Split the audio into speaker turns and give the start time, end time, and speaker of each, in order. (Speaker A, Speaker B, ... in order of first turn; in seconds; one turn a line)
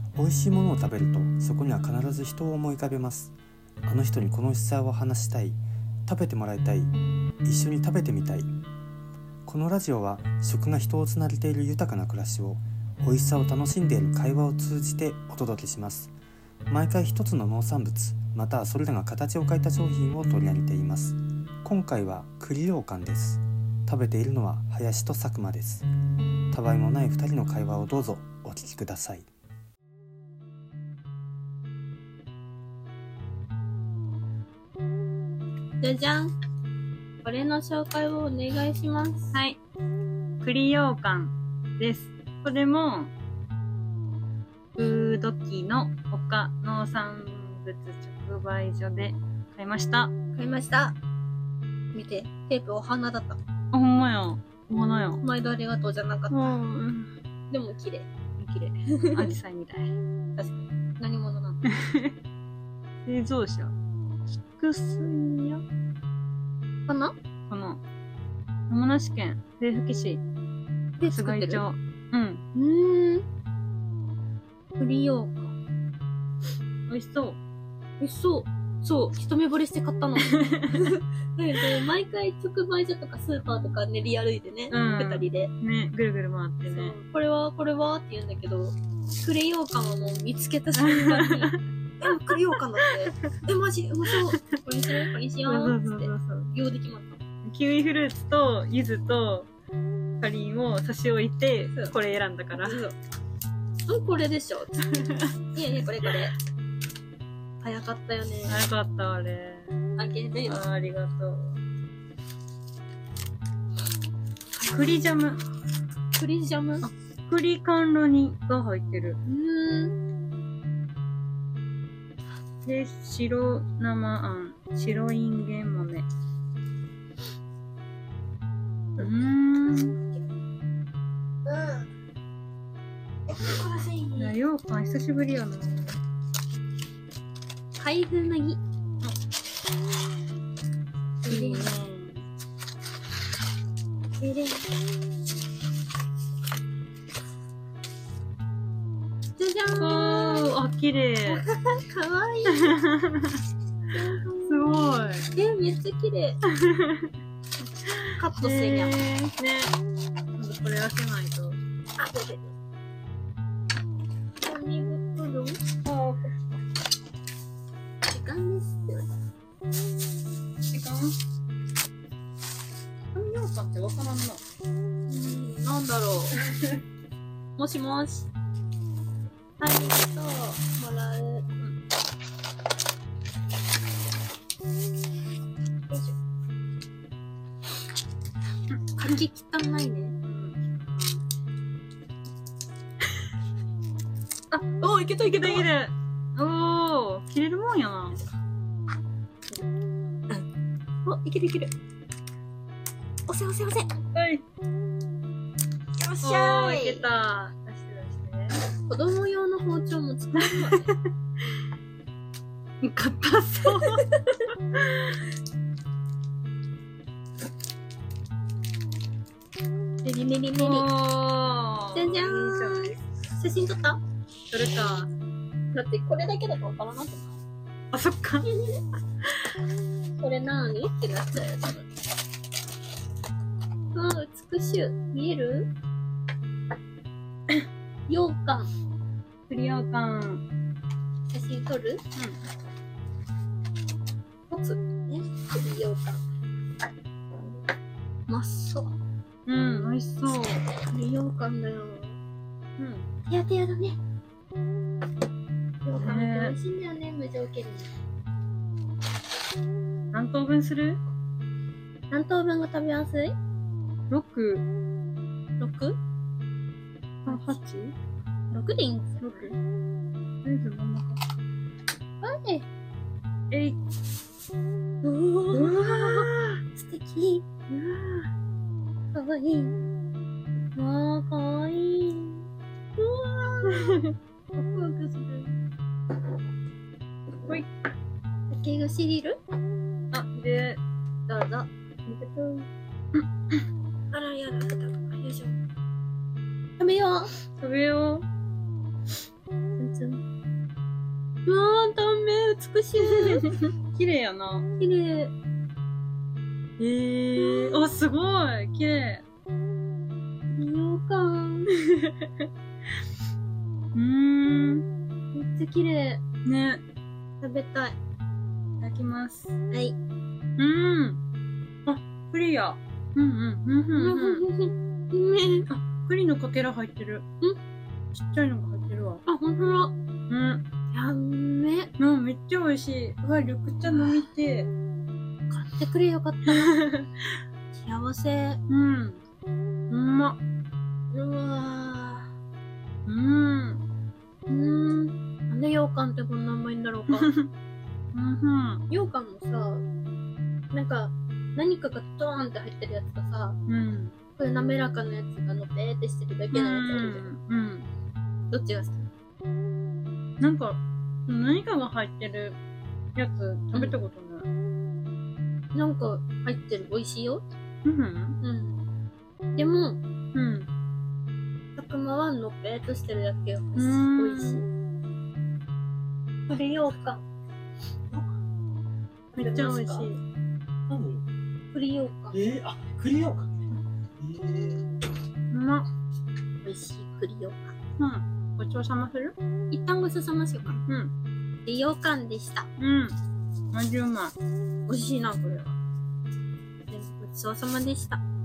Speaker A: 0.2-3.3
Speaker A: 3.9-6.9
Speaker A: 7.5-8.5
Speaker A: 9.4-16.1
Speaker A: 16.7-25.9
Speaker A: 26.5-29.3
Speaker B: 35.8-36.3
Speaker B: 37.2-39.4
Speaker C: 39.3-39.6
Speaker C: 40.4-43.1
Speaker C: 44.8-50.1
Speaker B: 50.4-51.0
Speaker B: 51.9-53.4
Speaker C: 53.7-55.2
Speaker B: 55.2-56.5
Speaker C: 56.3-57.1
Speaker B: 57.5-59.4
Speaker C: 59.1-60.7
Speaker B: 61.0-61.6
Speaker C: 61.7-62.1
Speaker C: 63.1-63.8
Speaker C: 64.5-65.6
Speaker B: 66.9-67.2
Speaker C: 67.5-67.8
Speaker C: 68.7-70.2
Speaker B: 71.0-71.6
Speaker C: 71.0-72.4
Speaker B: 72.6-73.2
Speaker B: 74.8-75.5
Speaker C: 76.9-77.4
Speaker B: 78.0-85.5
Speaker C: 80.2-80.8
Speaker C: 84.7-87.0
Speaker B: 86.7-97.2
Speaker C: 90.8-91.5
Speaker C: 95.4-96.5
Speaker C: 97.4-99.5
Speaker C: 100.2-102.9
Speaker B: 102.6-103.0
Speaker B: 103.9-104.8
Speaker C: 105.0-105.3
Speaker B: 105.5-106.3
Speaker B: 107.6-108.6
Speaker C: 108.5-109.8
Speaker B: 110.0-110.6
Speaker C: 110.5-111.6
Speaker B: 114.6-115.0
Speaker C: 114.7-115.4
Speaker B: 116.2-116.9
Speaker C: 116.8-119.2
Speaker B: 119.3-120.0
Speaker C: 122.7-126.1
Speaker C: 129.0-130.0
Speaker B: 131.5-131.8
Speaker B: 133.3-134.3
Speaker C: 134.2-136.0
Speaker B: 137.8-138.6
Speaker C: 141.3-142.2
Speaker B: 141.3-141.7
Speaker B: 144.2-144.7
Speaker B: 149.4-150.6
Speaker C: 149.8-151.4
Speaker B: 151.3-152.8
Speaker C: 152.5-153.4
Speaker B: 153.9-154.7
Speaker C: 154.4-155.3
Speaker B: 155.3-156.4
Speaker C: 156.5-157.1
Speaker B: 158.2-158.9
Speaker C: 158.4-159.8
Speaker C: 160.4-161.6
Speaker B: 162.0-162.5
Speaker B: 164.4-165.6
Speaker C: 165.8-166.3
Speaker B: 168.1-169.1
Speaker C: 170.7-171.2
Speaker C: 173.1-174.4
Speaker B: 175.1-176.4
Speaker B: 177.6-178.3
Speaker B: 179.6-181.5
Speaker B: 185.9-186.2
Speaker B: 189.0-190.2
Speaker C: 190.2-191.2
Speaker C: 194.5-198.2
Speaker B: 194.8-195.7
Speaker B: 201.1-201.7
Speaker B: 203.3-203.9
Speaker C: 204.1-204.4
Speaker B: 206.0-207.1
Speaker C: 206.2-208.6
Speaker B: 208.9-210.9
Speaker C: 210.3-211.0
Speaker C: 212.8-215.2
Speaker B: 213.7-214.0
Speaker B: 220.0-220.8
Speaker C: 220.6-223.0
Speaker B: 221.9-224.0
Speaker C: 224.5-225.1
Speaker B: 225.7-227.4
Speaker C: 227.9-228.5
Speaker B: 228.4-228.8
Speaker B: 230.2-231.8
Speaker B: 233.9-235.7
Speaker B: 238.1-238.7
Speaker C: 239.5-240.4
Speaker B: 241.3-242.0
Speaker C: 242.2-242.4
Speaker B: 244.5-246.2
Speaker B: 248.3-248.9
Speaker C: 249.5-250.6
Speaker B: 250.8-252.2
Speaker C: 252.8-253.1
Speaker B: 253.3-254.0
Speaker B: 255.8-257.9
Speaker C: 256.0-256.6
Speaker C: 260.1-261.0
Speaker B: 262.1-263.4
Speaker C: 264.1-264.7
Speaker B: 265.6-266.0
Speaker C: 267.2-267.9
Speaker B: 267.3-267.6
Speaker B: 268.5-269.5
Speaker C: 269.2-269.6
Speaker C: 270.4-271.2
Speaker B: 272.2-272.7
Speaker C: 273.5-273.8
Speaker B: 275.0-277.5
Speaker C: 275.5-276.6
Speaker C: 277.7-278.3
Speaker B: 279.1-279.7
Speaker B: 280.8-282.4
Speaker B: 283.0-284.0
Speaker C: 283.7-284.0
Speaker B: 284.6-285.6
Speaker C: 287.4-287.7
Speaker B: 288.5-289.4
Speaker C: 290.1-290.8
Speaker B: 291.3-292.7
Speaker B: 294.1-295.6
Speaker B: 296.8-297.3
Speaker C: 297.6-298.3
Speaker B: 299.8-300.2
Speaker B: 301.5-303.5
Speaker C: 303.0-304.7
Speaker B: 304.8-305.3
Speaker C: 306.8-309.2
Speaker B: 307.4-307.8
Speaker B: 310.5-312.0
Speaker C: 313.9-314.9
Speaker B: 315.3-316.2
Speaker C: 316.4-316.8
Speaker B: 317.4-318.0
Speaker C: 318.8-319.5
Speaker B: 319.7-320.0
Speaker C: 320.6-321.2
Speaker C: 321.9-324.4
Speaker B: 324.0-325.7
Speaker C: 325.7-327.2
Speaker C: 328.1-329.2
Speaker B: 329.3-329.9
Speaker C: 330.3-330.6
Speaker B: 330.9-331.9
Speaker C: 332.0-334.7
Speaker B: 333.9-334.3
Speaker B: 335.5-336.8
Speaker C: 336.5-337.3
Speaker B: 337.8-338.6
Speaker C: 338.7-339.2
Speaker C: 339.9-340.4
Speaker B: 341.1-342.3
Speaker C: 343.1-343.8
Speaker B: 344.5-347.3
Speaker C: 347.1-347.5
Speaker C: 348.1-348.8
Speaker B: 348.9-349.9
Speaker B: 350.7-353.6
Speaker C: 353.7-354.2
Speaker B: 354.4-357.3
Speaker C: 356.5-357.9
Speaker B: 358.5-359.1
Speaker C: 360.4-362.6
Speaker C: 363.1-364.5
Speaker B: 365.8-367.4
Speaker C: 367.9-368.4
Speaker B: 368.4-368.8
Speaker B: 369.5-370.0
Speaker C: 370.3-370.7
Speaker B: 371.8-374.7
Speaker C: 373.8-374.6
Speaker B: 376.5-377.2
Speaker B: 379.4-380.1
Speaker C: 379.4-380.2
Speaker D: 380.9-381.2
Speaker B: 381.7-382.4
Speaker D: 382.5-383.6
Speaker D: 384.2-384.8
Speaker C: 385.5-385.9
Speaker B: 386.6-387.6
Speaker C: 388.0-389.4
Speaker B: 389.7-390.8
Speaker C: 390.9-391.1
Speaker B: 391.7-392.7
Speaker C: 392.8-393.1
Speaker C: 393.7-394.4
Speaker B: 394.9-395.8
Speaker B: 396.9-398.2